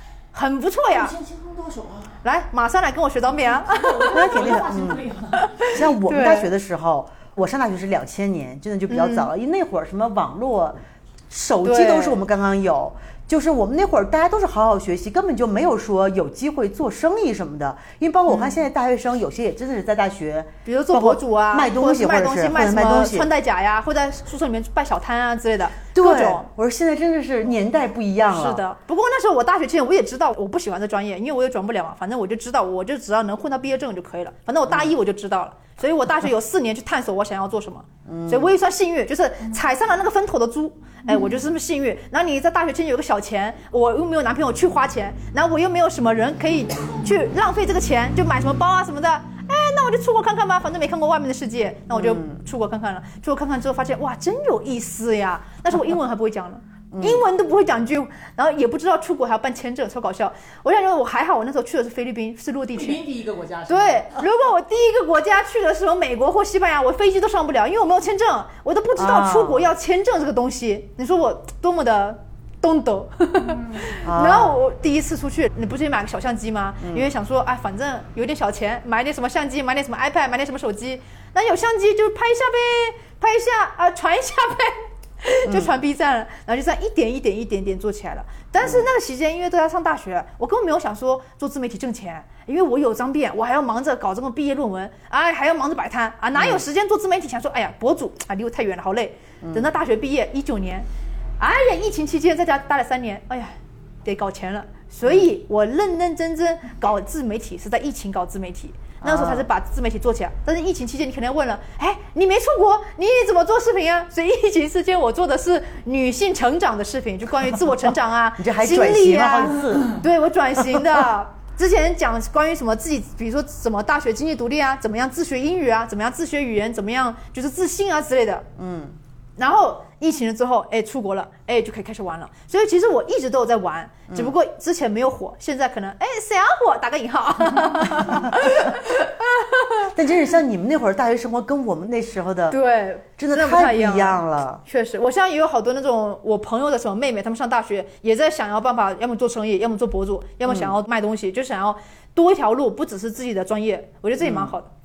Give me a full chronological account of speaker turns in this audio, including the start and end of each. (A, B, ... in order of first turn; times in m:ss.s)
0:00.3-0:01.1 A
0:00.9-0:02.1 B
0:02.2-0:04.3 A
0:03.4-0:05.5 B
0:04.1-0:05.1 C
0:05.4-0:06.5 A
0:05.7-0:10.8 C
0:08.9-0:09.3 A
0:11.3-0:23.3 C
0:11.6-0:12.2 A
0:18.3-0:18.6 A
0:20.7-0:26.5 A
0:25.9-0:28.6 C
0:28.3-1:03.0 A
0:38.1-0:38.5 C
0:51.9-0:52.4 C
0:56.9-0:57.2 C
1:02.7-1:04.1 B
1:03.7-1:40.9 A
1:09.0-1:09.7 C
1:13.5-1:13.8 B
1:14.0-1:14.6 C
1:16.8-1:17.1 C
1:25.5-1:25.7 C
1:28.6-1:28.9 C
1:36.4-1:36.6 C
1:41.4-2:08.5 A
1:49.0-1:49.5 C
1:58.4-2:00.0 C
2:08.6-2:09.0 C
2:09.4-2:19.9 A
2:18.0-2:18.3 C
2:19.9-2:22.6 C
2:22.5-2:34.7 A
2:23.2-2:24.6 C
2:30.5-2:30.7 C
2:34.2-2:34.5 C